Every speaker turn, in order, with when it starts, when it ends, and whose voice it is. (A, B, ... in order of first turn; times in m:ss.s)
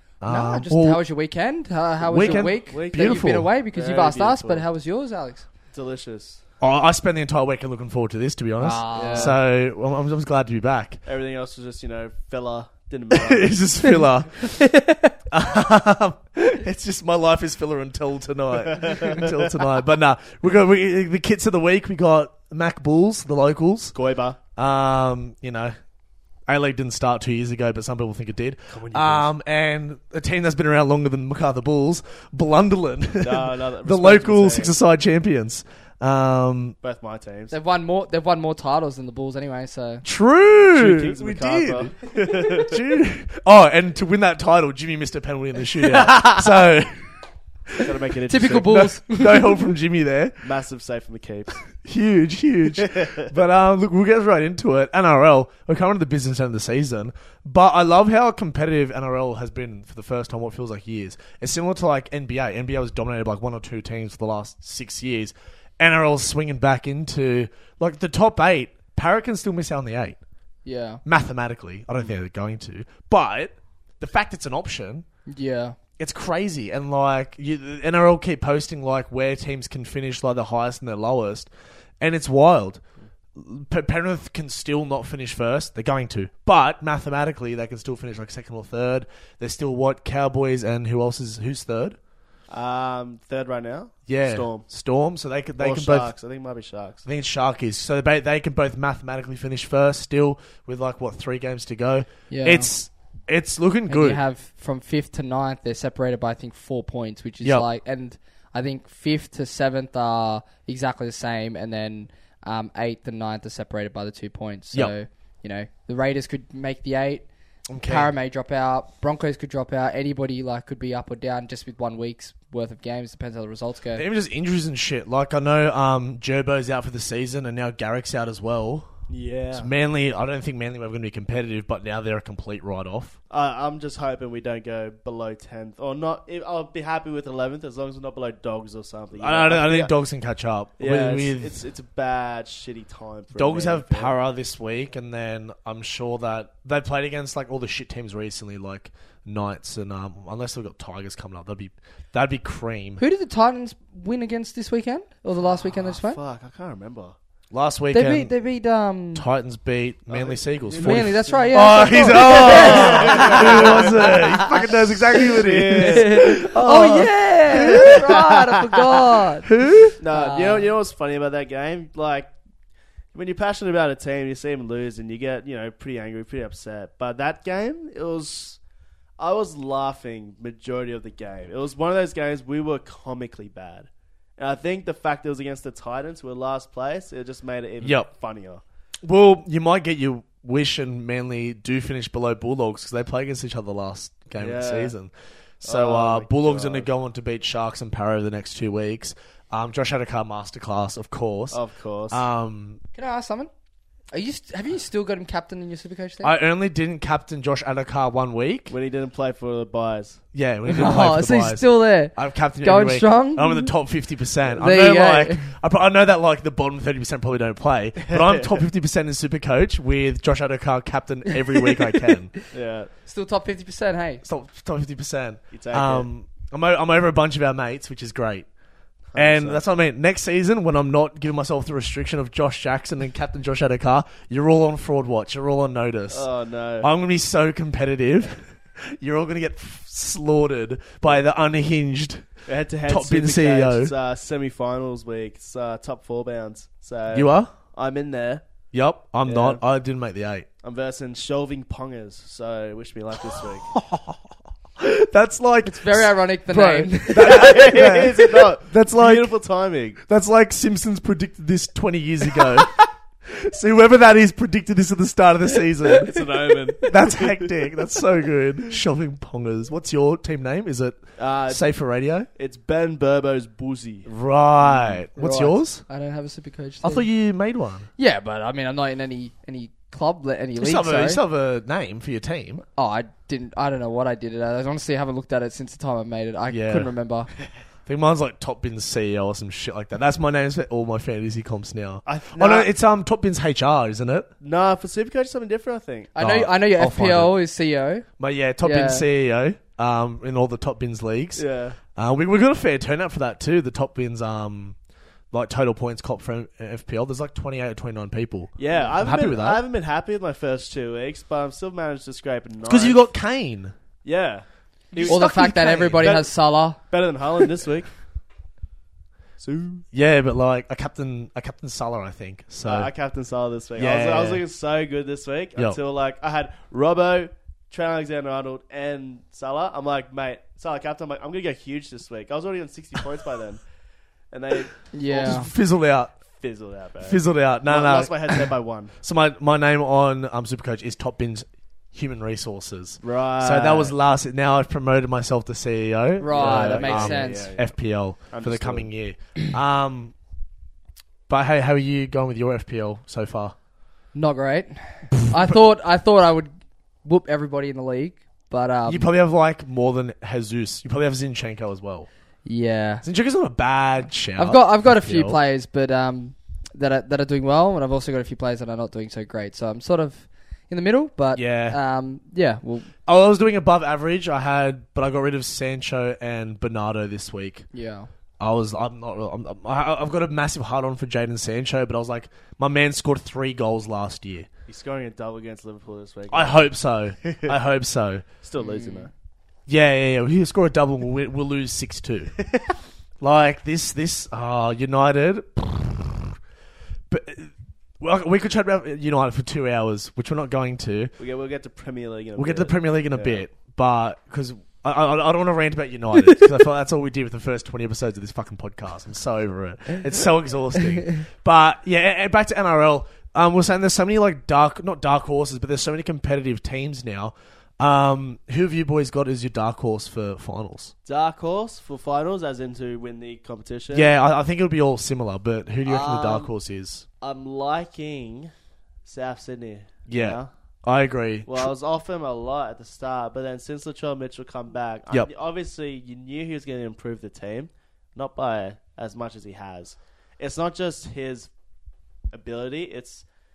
0:00.2-0:01.0 A
0:00.3-0:05.5 B
0:02.0-0:03.5 A
0:02.0-0:04.7 C
0:05.7-0:06.4 C
0:06.6-0:11.0 A
0:08.6-0:09.4 B
0:08.9-0:09.4 C
0:11.1-0:13.6 C
0:13.1-0:14.7 A
0:14.7-0:15.1 B
0:15.3-0:24.0 A
0:18.7-0:19.5 C
0:24.0-0:24.4 C
0:24.6-0:25.8 A
0:26.5-0:36.8 A
0:28.7-0:29.3 C
0:33.2-0:34.8 C
0:36.8-0:37.6 C
0:37.5-0:40.0 B
0:40.0-0:47.1 A
0:40.7-0:42.8 C
0:47.8-0:48.9 C
0:48.3-0:49.6 B
0:48.7-0:50.4 A
0:50.4-0:51.5 C
0:51.8-1:10.2 A
0:52.8-0:53.2 C
1:10.6-1:11.0 B
1:11.0-1:15.0 A
1:15.3-1:15.8 B
1:16.0-1:22.8 A
1:23.3-1:32.0 A
1:32.5-1:34.7 C
1:34.1-1:36.1 A
1:35.6-1:37.0 C
1:37.0-1:44.2 A
1:42.3-1:42.7 B
1:43.9-1:57.3 B
1:57.7-1:58.1 A
1:57.9-2:04.0 B
2:04.0-2:08.9 A
2:09.1-2:09.7 C
2:09.5-2:13.2 A
2:13.3-2:19.9 C
2:19.2-2:21.6 A
2:20.8-2:24.1 C
2:23.4-2:33.0 A
2:33.0-2:36.2 B
2:35.4-2:37.2 C
2:37.5-2:38.3 A
2:37.9-2:39.2 B
2:39.2-2:48.2 A
2:40.1-2:44.5 C
2:40.8-2:44.4 B
2:45.1-2:46.5 C
2:45.8-2:49.5 B
2:47.5-2:49.2 C
2:49.4-2:50.0 A
2:50.0-2:52.3 C
2:50.1-2:50.7 B
2:53.1-2:58.6 C
2:59.2-3:08.6 C
3:07.8-3:08.1 A
3:09.0-3:15.1 A
3:14.4-3:14.9 C
3:15.6-3:16.9 C
3:15.6-3:22.8 A
3:21.5-3:22.2 C
3:23.0-3:23.5 B
3:24.1-3:26.3 B
3:26.2-3:28.8 A
3:28.7-3:30.2 C
3:30.3-3:42.3 A
3:30.7-3:33.7 B
3:34.6-3:35.5 B
3:38.0-3:38.6 C
3:42.5-3:42.9 C
3:43.1-3:44.2 B
3:44.2-3:48.5 A
3:45.5-3:46.1 C
3:49.1-3:49.6 C
3:49.2-3:56.3 A
3:56.1-3:56.9 C
3:56.8-4:02.3 A
4:02.5-4:08.4 C
4:02.9-4:03.9 A
4:07.1-4:07.5 A
4:08.7-4:10.5 A
4:09.2-4:09.6 C
4:10.6-4:13.7 C
4:13.7-4:14.2 A
4:14.8-4:19.3 A
4:15.7-4:17.6 B
4:17.2-4:20.0 C
4:20.1-4:26.2 A
4:26.1-4:27.5 C
4:26.8-4:32.3 A
4:31.2-4:31.6 C
4:32.4-4:34.1 C
4:34.1-4:35.8 A
4:34.6-4:35.0 C
4:35.2-4:37.1 B
4:36.8-4:37.9 A
4:38.0-4:41.2 B
4:40.6-4:42.6 A
4:42.8-4:47.3 B
4:46.5-4:46.9 A
4:47.9-4:54.3 A
4:52.1-4:52.7 C
4:54.4-4:56.1 C
4:56.2-4:58.1 B
4:56.2-4:57.3 A
4:58.2-5:01.4 A
4:58.6-4:59.0 B
5:01.4-5:01.8 C
5:02.0-5:04.8 A
5:05.3-5:09.6 A
5:08.6-5:13.0 C
5:12.7-5:13.7 A
5:14.0-5:15.2 C
5:15.0-5:16.8 B
5:15.0-5:16.2 A
5:16.0-5:16.3 C
5:16.9-5:17.9 C
5:19.4-5:19.8 C
5:19.9-5:22.9 A
5:22.6-5:33.6 C
5:23.8-5:24.4 A
5:34.3-5:35.4 C
5:34.9-5:35.5 B
5:35.1-5:36.2 A
5:36.3-5:38.9 C
5:37.0-5:50.1 A
5:43.0-5:44.0 C
5:46.2-5:47.5 B
5:46.3-5:47.7 C
5:48.3-5:48.9 C
5:51.3-5:53.6 A
5:54.1-5:56.5 B
5:57.0-5:59.1 B
5:58.9-6:02.1 A
6:02.4-6:03.0 B
6:03.0-6:05.4 A
6:04.4-6:12.9 B
6:11.3-6:11.8 A
6:13.1-6:17.7 A
6:17.7-6:18.1 B
6:18.4-6:24.5 A
6:24.7-6:26.6 C
6:26.3-6:28.2 A
6:27.2-6:27.5 C
6:28.4-6:29.1 C
6:28.6-6:29.1 B
6:29.7-6:32.4 A
6:33.2-6:36.3 A
6:37.1-6:41.1 A
6:41.2-6:43.4 C
6:42.4-7:00.9 A
7:01.0-7:04.1 C
7:03.9-7:07.1 A
7:05.9-7:06.5 C
7:07.2-7:08.5 C
7:09.0-7:10.5 C
7:10.1-7:11.7 A
7:11.5-7:21.5 C
7:22.3-7:23.2 C